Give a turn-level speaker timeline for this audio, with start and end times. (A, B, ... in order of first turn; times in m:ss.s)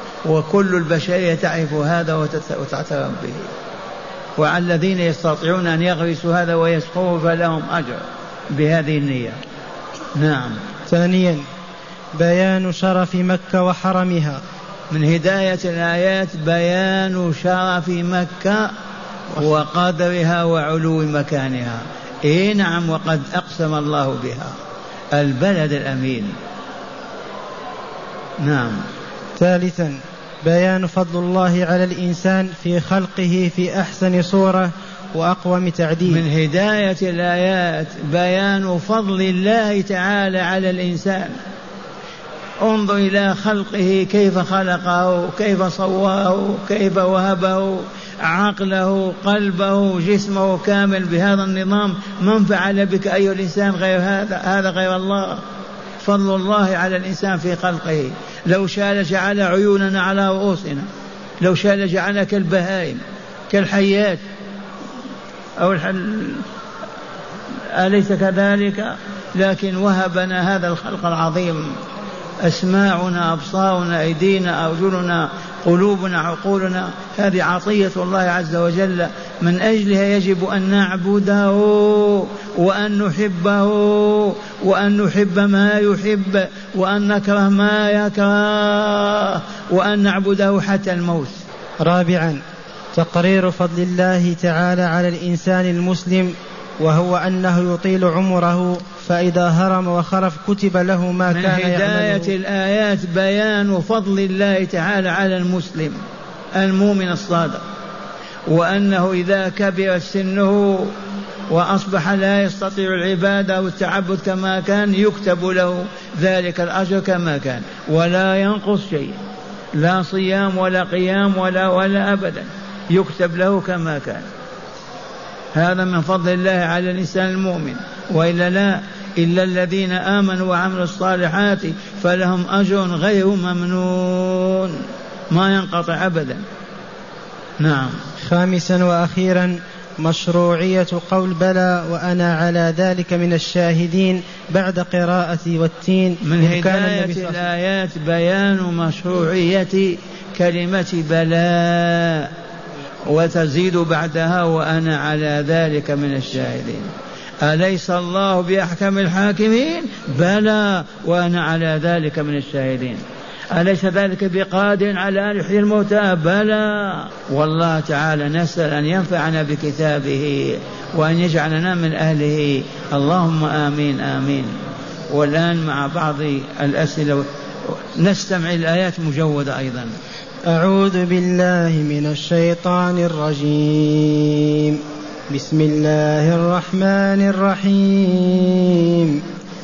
0:00.2-0:03.5 A
0:04.4-0:08.0 A
0:08.5-0:09.4 A
0:10.2-0:10.5 A
0:10.9-0:11.4 B
0:12.2-0:14.4 B
0:14.9-0:18.7 A
0:19.4-0:24.5 A
0:25.1-0:26.3 A
0:28.4-0:28.8 A
0:29.4-0:36.2 B
0:36.1-0:41.3 A
0:42.6-0:55.4 A
0:56.0-1:00.9 A
1:01.4-1:03.0 A
1:03.5-1:04.2 A
1:05.6-1:06.4 A
1:07.8-1:11.7 A
1:12.4-1:31.4 A
1:31.8-1:32.4 B
1:32.9-1:42.3 B
1:41.3-1:46.0 A
1:46.6-1:47.6 A
1:48.5-1:50.9 A
1:51.5-1:59.2 A
1:59.8-2:04.2 A
2:05.5-2:14.7 A
2:15.3-2:16.4 A
2:17.6-2:17.9 A
2:18.2-2:27.4 B
2:26.2-2:32.3 A
2:33.1-2:36.9 A
2:37.4-2:43.0 A
2:43.5-2:54.5 A
2:55.1-2:59.9 A
3:00.5-3:04.8 B
3:05.3-3:09.2 B